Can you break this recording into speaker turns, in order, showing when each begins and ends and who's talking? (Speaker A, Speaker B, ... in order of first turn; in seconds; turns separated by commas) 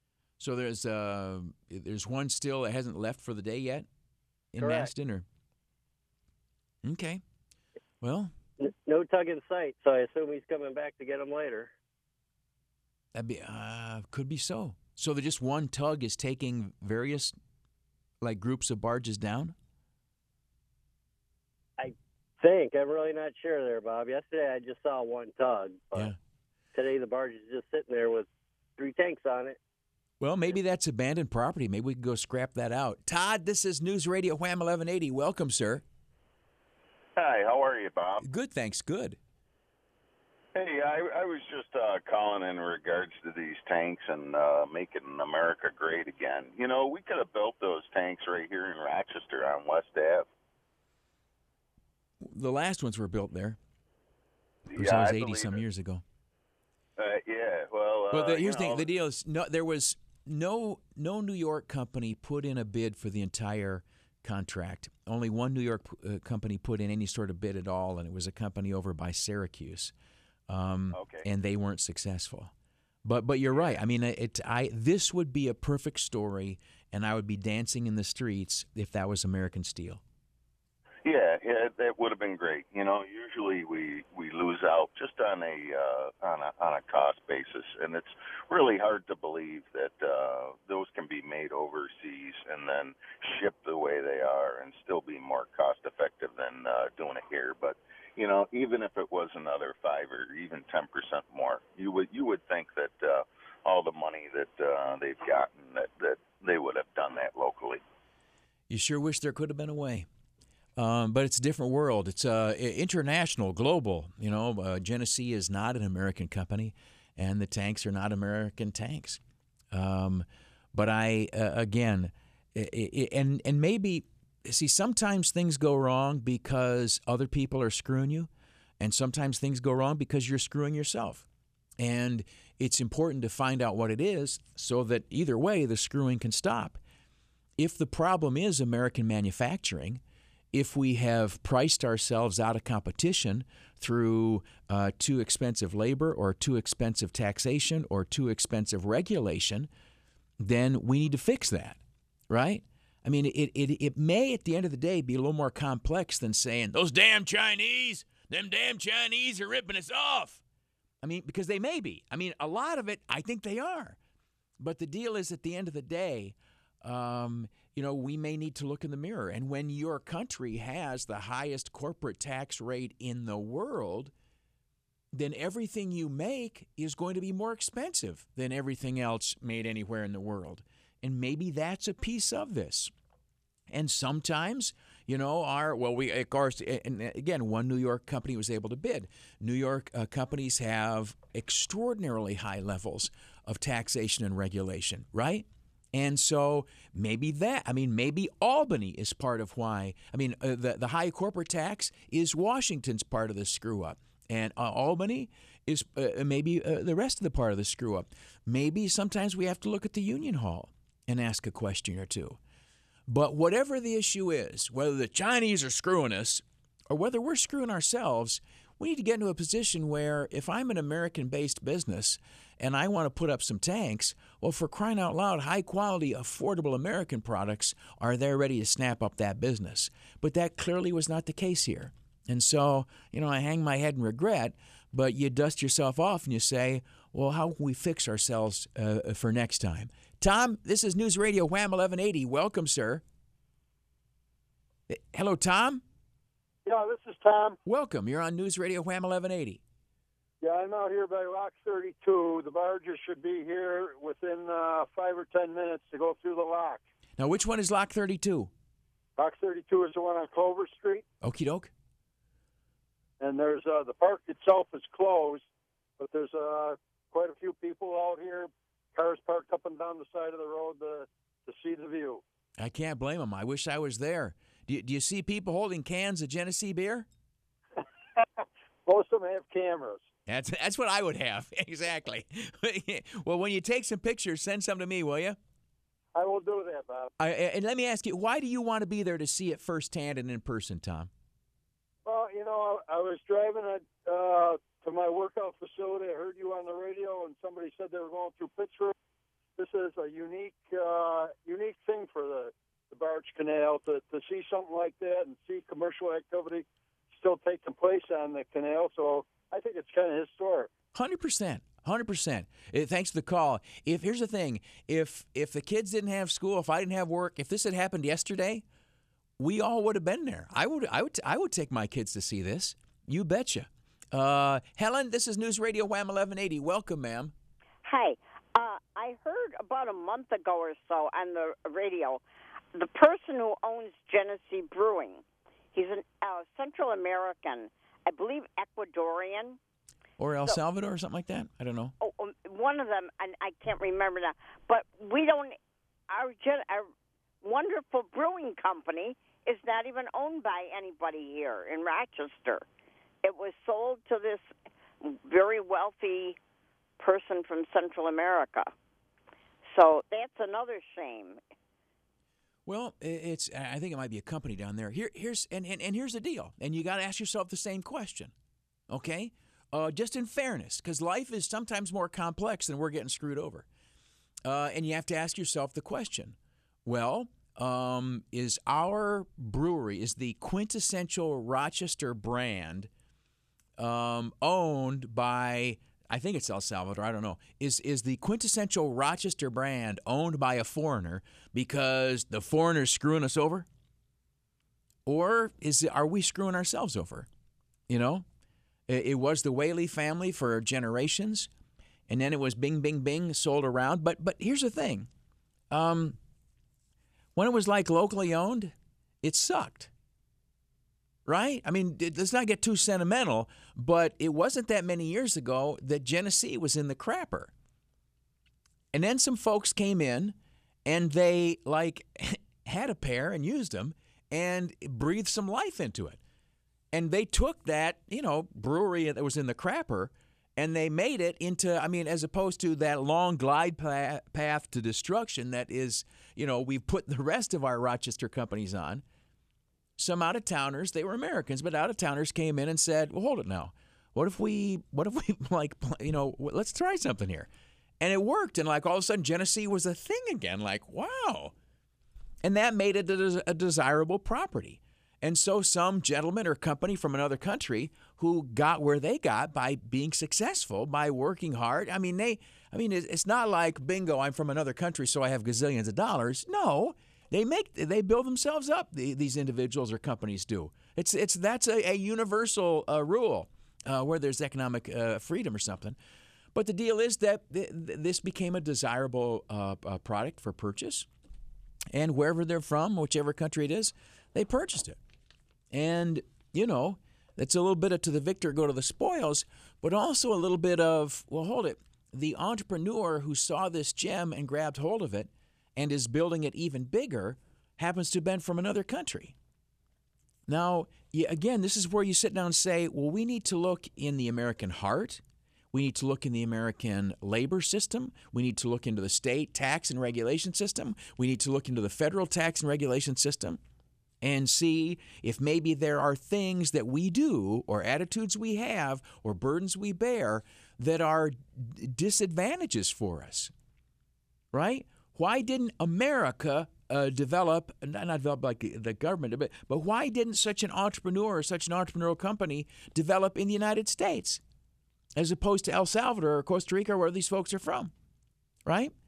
Speaker A: 0.4-3.9, Speaker A: 4.5-5.2, Speaker B: 4.6-4.9, Speaker A: 6.8-7.2, Speaker A: 8.0-8.3, Speaker B: 8.6-11.7, Speaker A: 13.1-17.4, Speaker A: 18.2-19.5, Speaker B: 21.8-26.1, Speaker B: 26.7-28.2, Speaker B: 28.8-29.6, Speaker A: 30.2-35.8, Speaker C: 37.1-38.2, Speaker A: 38.2-39.2, Speaker C: 40.5-50.3, Speaker A: 52.2-53.6, Speaker C: 54.7-55.6, Speaker A: 54.8-56.0, Speaker C: 57.0-58.9, Speaker A: 58.1-69.9, Speaker A: 70.5-72.5, Speaker C: 70.9-71.2, Speaker A: 73.0-80.0, Speaker C: 73.5-73.8, Speaker C: 81.0-107.8, Speaker A: 108.7-110.1, Speaker A: 110.8-119.2, Speaker A: 119.7-128.3, Speaker A: 128.8-131.2, Speaker A: 131.8-136.8, Speaker A: 137.6-140.0, Speaker A: 140.5-149.7, Speaker A: 150.4-160.4, Speaker A: 161.0-164.0, Speaker A: 164.6-174.1, Speaker A: 175.1-182.9, Speaker A: 183.7-212.4, Speaker A: 213.1-243.0, Speaker A: 244.9-245.8, Speaker D: 246.7-247.6, Speaker A: 247.7-249.6, Speaker D: 250.4-256.8, Speaker A: 257.2-258.5, Speaker D: 259.2-261.0, Speaker A: 261.2-261.7, Speaker D: 263.2-265.4, Speaker D: 266.0-272.2, Speaker A: 272.6-277.1, Speaker D: 278.9-280.1, Speaker A: 280.3-285.4, Speaker D: 286.1-287.1, Speaker A: 287.2-291.1, Speaker D: 292.1-298.9, Speaker D: 299.6-310.7, Speaker A: 310.9-318.6, Speaker A: 319.4-327.3, Speaker E: 327.8-332.2, Speaker E: 332.7-339.6, Speaker A: 340.2-341.9, Speaker E: 342.0-345.5, Speaker E: 346.1-346.9, Speaker E: 347.4-352.6, Speaker E: 353.2-354.5, Speaker E: 355.0-356.4, Speaker E: 357.0-358.7, Speaker E: 359.7-361.4, Speaker A: 362.6-368.3, Speaker A: 368.9-373.6, Speaker A: 374.4-382.9, Speaker A: 383.8-393.7, Speaker A: 395.1-397.3, Speaker A: 397.9-398.2, Speaker A: 398.9-401.5, Speaker A: 402.1-405.1, Speaker A: 405.7-406.2, Speaker A: 407.3-409.9, Speaker A: 411.2-417.5, Speaker A: 418.9-426.2, Speaker A: 426.9-439.0, Speaker A: 440.0-447.5, Speaker A: 448.0-451.5, Speaker A: 452.4-476.0, Speaker A: 476.5-481.1, Speaker A: 481.9-485.0, Speaker A: 485.7-499.3, Speaker A: 500.5-513.6, Speaker A: 514.2-523.5, Speaker A: 524.5-534.4, Speaker A: 535.1-537.9, Speaker A: 538.6-538.9